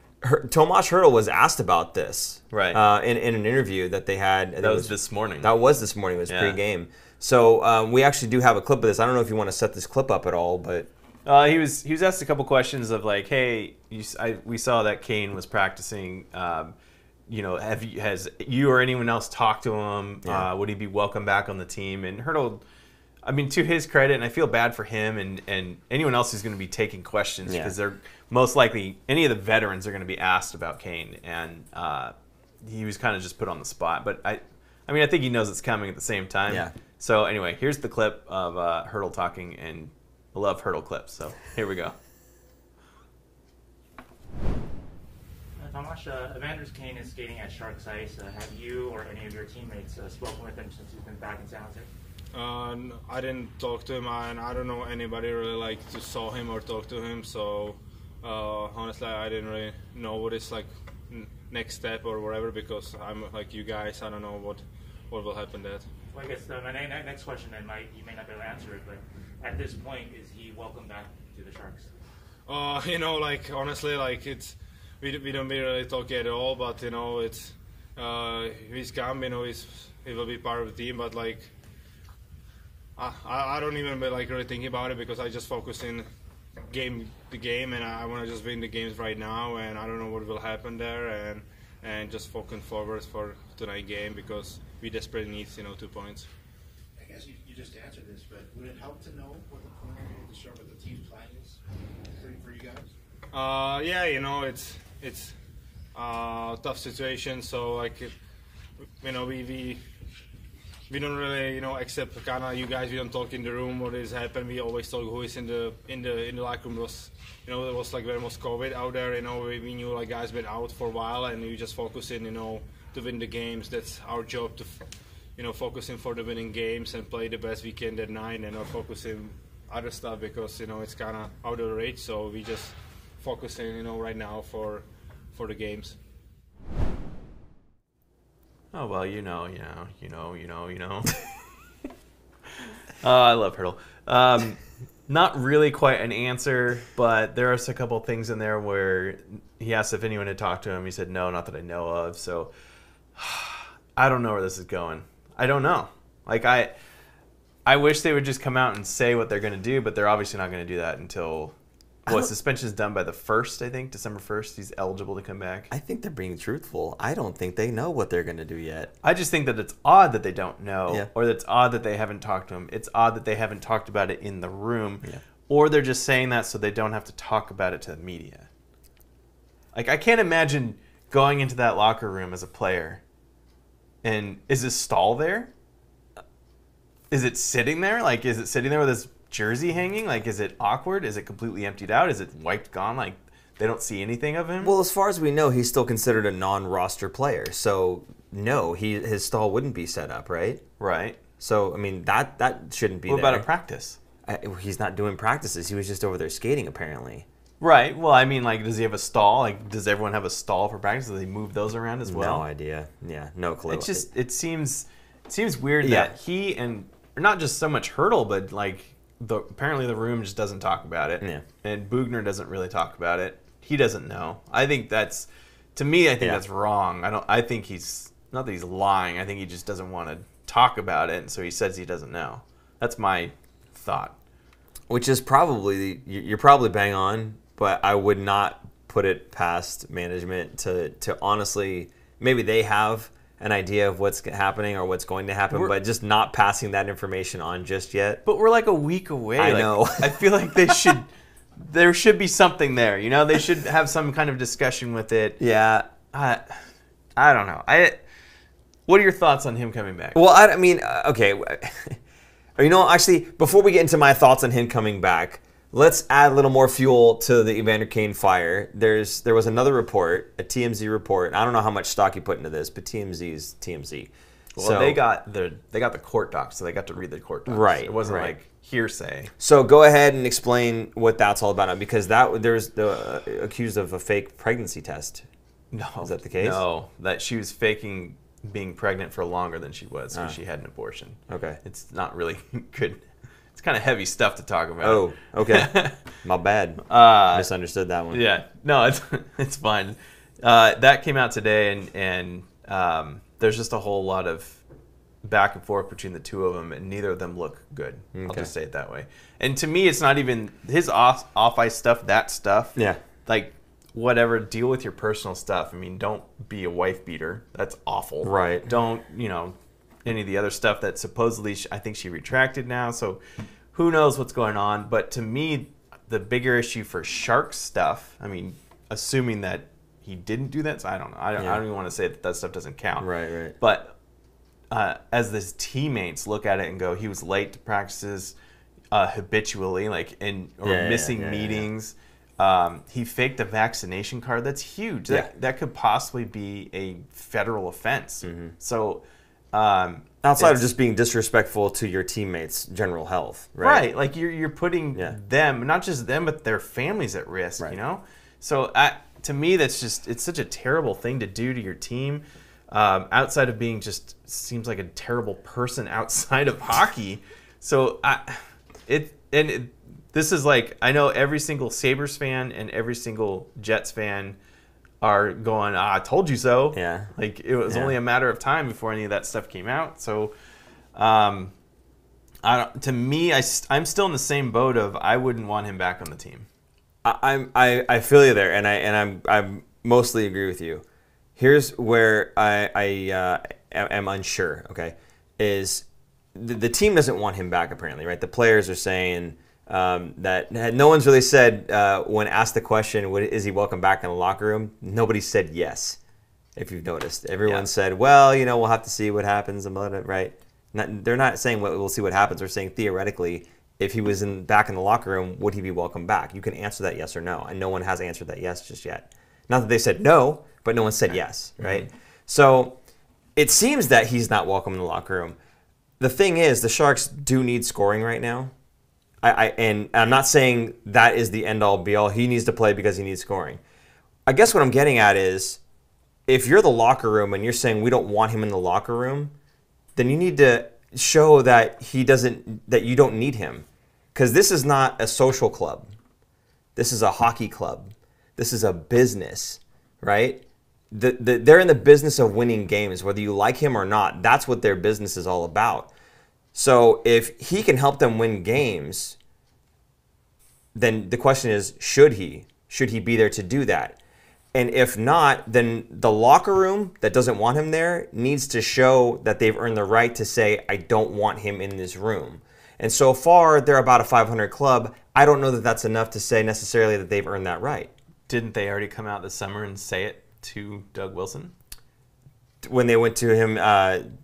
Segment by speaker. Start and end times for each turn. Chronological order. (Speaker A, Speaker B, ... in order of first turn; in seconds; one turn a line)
Speaker A: 0.2-10.9
Speaker B: 2.5-2.8
Speaker B: 4.6-5.5
Speaker B: 6.3-6.6
Speaker B: 11.2-16.7
Speaker B: 17.3-22.6
Speaker B: 23.2-41.9
Speaker A: 27.4-27.7
Speaker C: 45.6-51.9
Speaker D: 52.3-65.8
Speaker C: 66.1-71.9
Speaker D: 72.5-81.5
Speaker D: 83.0-86.0
Speaker D: 86.7-96.2
Speaker E: 97.0-101.6
Speaker E: 102.1-102.9
Speaker D: 103.3-105.3
Speaker D: 105.9-108.1
Speaker D: 109.0-109.8
Speaker D: 110.9-124.8
Speaker D: 125.3-135.9
Speaker B: 138.7-141.2
Speaker B: 143.0-152.5
Speaker B: 153.2-156.7
Speaker B: 157.7-161.5
Speaker B: 162.1-165.7
Speaker A: 165.7-168.9
Speaker B: 169.0-178.5
Speaker B: 179.7-183.0
Speaker B: 184.0-185.5
Speaker B: 187.1-194.7
Speaker A: 194.6-200.6
Speaker B: 200.8-201.2
Speaker A: 201.4-203.4
Speaker B: 203.1-204.0
Speaker A: 204.2-207.2
Speaker B: 207.6-212.4
Speaker A: 212.0-214.0
Speaker B: 213.7-234.2
Speaker A: 215.8-216.1
Speaker A: 234.9-248.2
Speaker B: 248.2-255.4
Speaker A: 249.4-251.0
Speaker A: 255.4-255.9
Speaker B: 256.1-258.0
Speaker B: 258.9-260.2
Speaker A: 260.1-262.0
Speaker A: 262.6-275.0
Speaker B: 274.6-279.3
Speaker A: 277.4-278.4
Speaker A: 279.4-285.2
Speaker B: 285.7-296.1
Speaker A: 286.0-286.6
Speaker A: 290.1-290.4
Speaker A: 291.3-291.6
Speaker A: 294.8-298.2
Speaker B: 296.8-297.5
Speaker B: 298.1-304.6
Speaker B: 305.2-323.2
Speaker A: 308.1-308.5
Speaker A: 318.2-318.7
Speaker B: 323.7-333.1
Speaker A: 333.0-333.6
Speaker B: 333.6-333.9
Speaker B: 334.7-338.3
Speaker B: 338.9-350.7
Speaker A: 340.6-341.7
Speaker A: 348.2-348.5
Speaker A: 350.2-353.8
Speaker B: 353.6-374.4
Speaker B: 375.0-380.3
Speaker A: 376.7-377.1
Speaker A: 377.7-377.9
Speaker B: 380.9-381.5
Speaker B: 382.4-386.5
Speaker A: 387.0-390.8
Speaker A: 391.4-406.0
Speaker A: 406.6-422.8
Speaker B: 421.1-421.9
Speaker A: 423.4-425.4
Speaker A: 426.0-428.5
Speaker A: 429.2-433.6
Speaker A: 434.2-435.6
Speaker A: 436.3-439.3
Speaker A: 439.9-445.9
Speaker A: 446.8-455.9
Speaker A: 456.5-459.2
Speaker A: 460.7-464.0
Speaker A: 464.5-477.9
Speaker B: 478.3-481.5
Speaker A: 482.6-484.0